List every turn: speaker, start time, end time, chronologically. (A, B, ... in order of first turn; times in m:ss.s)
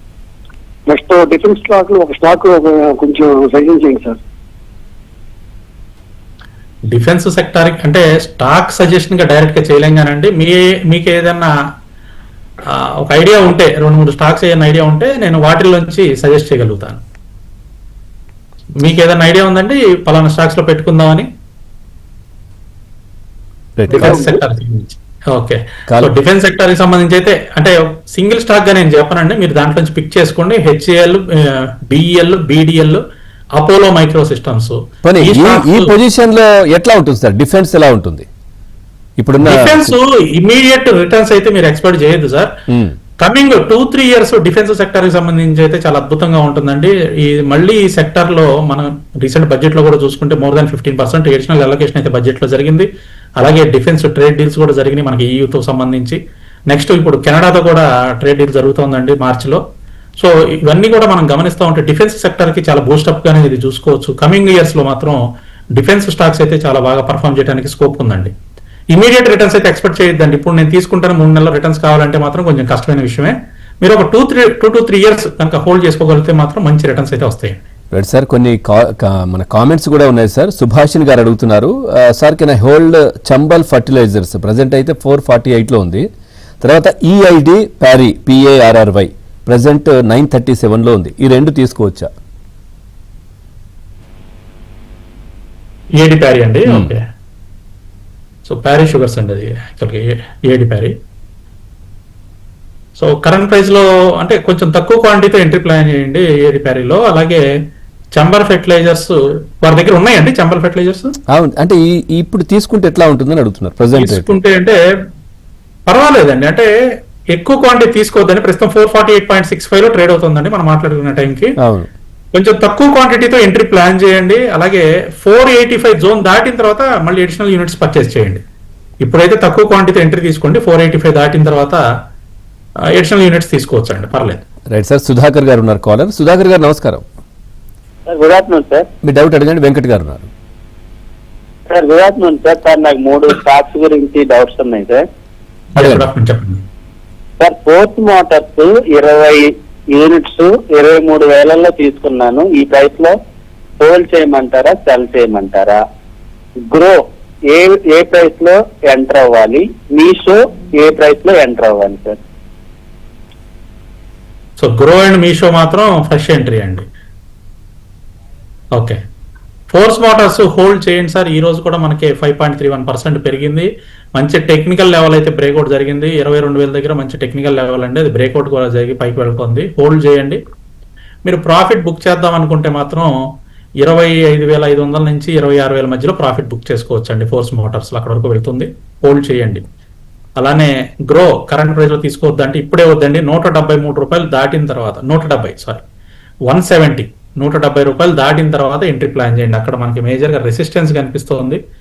0:00.9-0:04.2 A
0:06.9-0:11.5 B
0:12.8-0:17.0 B
0:18.8-0:21.3 B
0:23.8-0:24.4 C
0:23.9-0:33.0 B
0:33.6-0:35.9 B
0:35.0-0:38.3 C
0:39.2-0:39.9 C
0:39.4-0:42.5 B
0:42.7-0:43.0 C
0:43.2-0:52.9 B
0:53.4-0:56.2 B
0:56.7-0:59.6 B
1:00.2-1:05.2 B
1:05.7-1:08.3 B
1:08.9-1:17.6 B
1:17.9-1:26.0 C
1:26.6-1:32.1 C
1:36.0-1:37.0 B
1:36.7-1:36.9 C
1:38.4-1:40.9 B
1:43.0-1:47.4 B
1:48.2-1:51.1 B
1:51.3-1:54.4 C
1:53.9-1:54.7 B
1:55.9-1:56.7 B
1:57.3-2:01.5 B
2:01.6-2:01.9 C
2:02.3-2:08.4 B
2:09.0-2:11.8 B
2:13.0-2:14.4 B
2:14.7-2:17.0 C
2:18.1-2:18.9 D
2:19.0-2:20.3 C
2:21.7-2:25.0 D
2:25.8-2:26.1 C
2:25.8-2:26.6 B
2:27.4-2:33.1 D
2:33.8-2:35.8 D
2:36.7-2:42.2 D
2:44.6-2:46.8 B
2:49.7-3:00.4 B
3:01.2-3:03.1 B
3:03.8-3:09.6 B
3:10.4-3:15.8 B
3:16.5-3:21.6 B